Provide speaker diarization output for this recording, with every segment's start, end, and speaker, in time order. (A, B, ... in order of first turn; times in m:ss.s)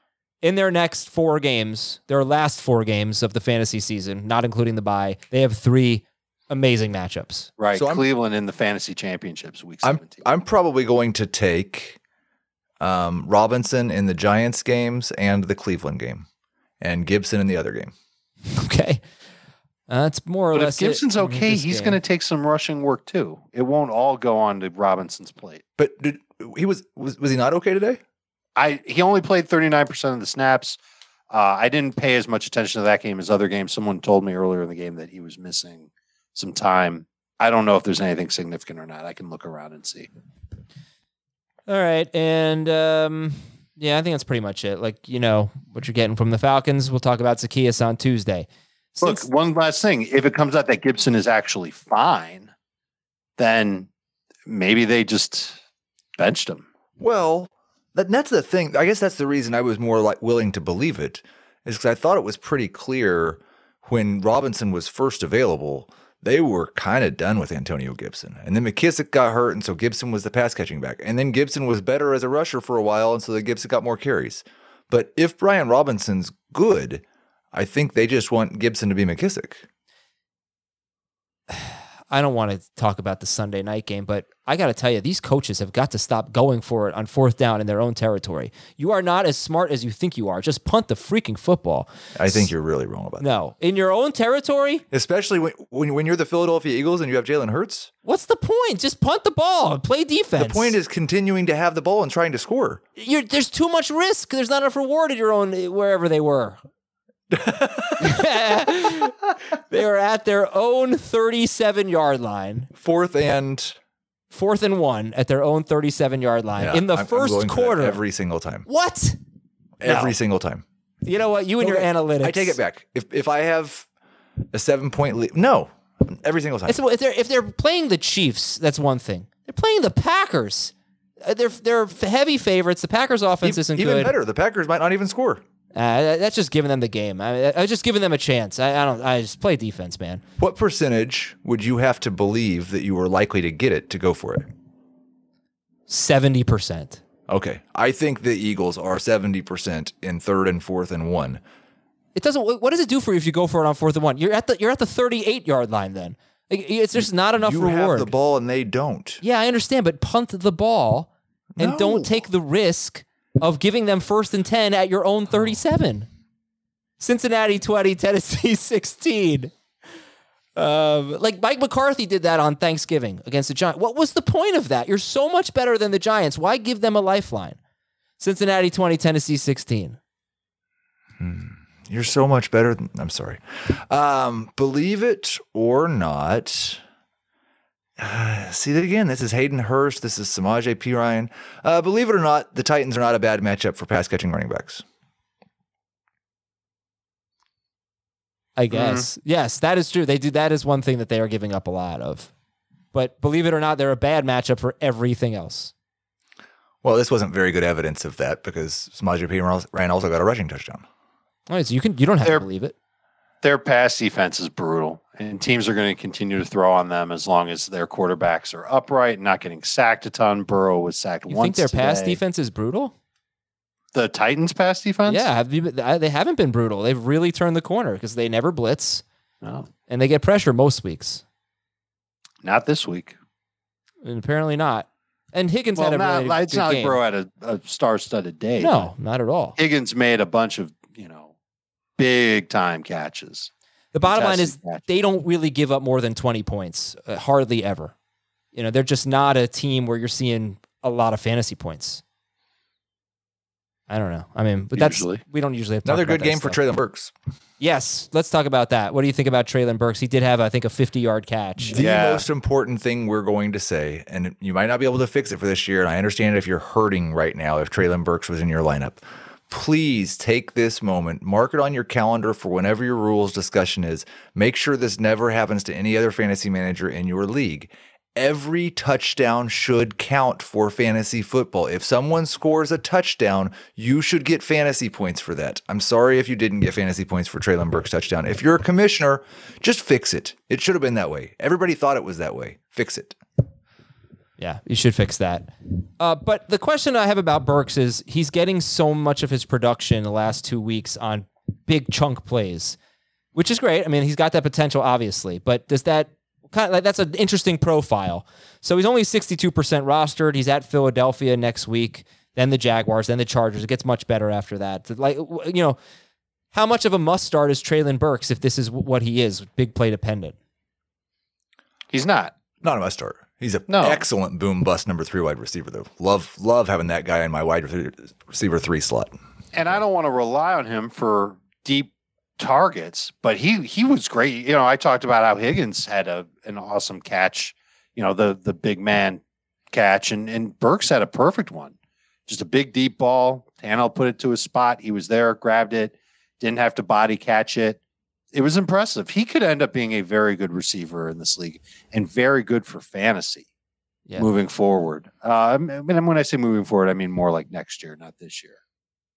0:00.4-0:07.5 A
0:07.6-0:10.2 B
0:07.7-0:08.0 C
0:09.8-0:12.0 C
0:12.8-0:16.3 C
0:16.8-0:17.9 C
0:18.5-0:19.0 A
0:19.9-0:22.0 A
0:20.5-0:25.6 B
0:25.8-0:28.0 C
0:28.6-0:30.8 B
0:31.3-0:40.1 B
0:41.7-0:49.3 A
0:49.0-0:52.5 B
0:53.4-0:53.9 B
0:54.5-0:55.6 B
0:56.2-0:56.6 B
0:57.0-1:19.6 C
1:21.5-1:32.5 A
1:32.2-1:33.2 C
1:33.2-1:34.8 A
1:34.9-1:37.9 C
1:38.0-1:40.8 A
1:40.4-1:42.8 C
1:43.0-1:46.6 A
1:47.3-1:48.3 C
1:48.0-1:49.2 A
1:49.7-1:52.7 A
1:52.7-1:53.8 C
1:54.3-1:58.0 A
1:56.6-1:58.6 C
1:58.6-1:59.2 A
1:59.8-2:00.6 C
1:59.8-2:00.1 A
2:01.0-2:02.6 A
2:01.6-2:03.9 C
2:04.5-2:06.8 C
2:06.7-2:14.1 A
2:13.4-2:15.4 C
2:15.7-2:20.2 A
2:20.4-2:24.5 C
2:25.9-2:27.0 A
2:27.3-2:31.4 C
2:32.1-2:38.1 A
2:37.0-2:39.2 C
2:39.2-2:46.1 A
2:41.6-2:42.2 C
2:47.0-2:49.5 A
2:50.6-2:57.6 A
2:58.2-3:00.0 A
3:01.2-3:06.8 C
3:08.0-3:14.8 C
3:18.6-3:22.3 A
3:18.7-3:19.1 B
3:22.9-3:25.7 A
3:26.8-3:30.8 C
3:31.5-3:32.7 A
3:33.4-3:42.2 B
3:41.3-3:42.9 A
3:43.9-3:45.2 B
3:45.1-3:49.0 A
3:49.4-3:49.7 B
3:49.9-3:51.2 A
3:52.4-3:53.1 B
3:54.0-3:57.0 A
3:55.7-3:58.9 B
3:58.6-3:59.6 A
3:59.6-4:01.3 B
4:02.0-4:03.5 B
4:03.9-4:07.9 A
4:04.0-4:04.8 B
4:08.5-4:12.0 A
4:13.9-4:16.6 A
4:14.8-4:15.2 B
4:15.8-4:17.1 C
4:17.6-4:21.8 A
4:21.7-4:53.2 C
4:21.7-4:22.2 B
4:54.4-5:02.8 A
5:03.3-5:15.8 A
5:16.5-5:20.4 A
5:21.9-5:22.3 B
5:22.6-5:29.2 C
5:23.7-5:24.0 B
5:29.5-5:41.7 B
5:42.3-5:47.8 B
5:48.3-5:53.5 B
5:54.2-5:58.6 B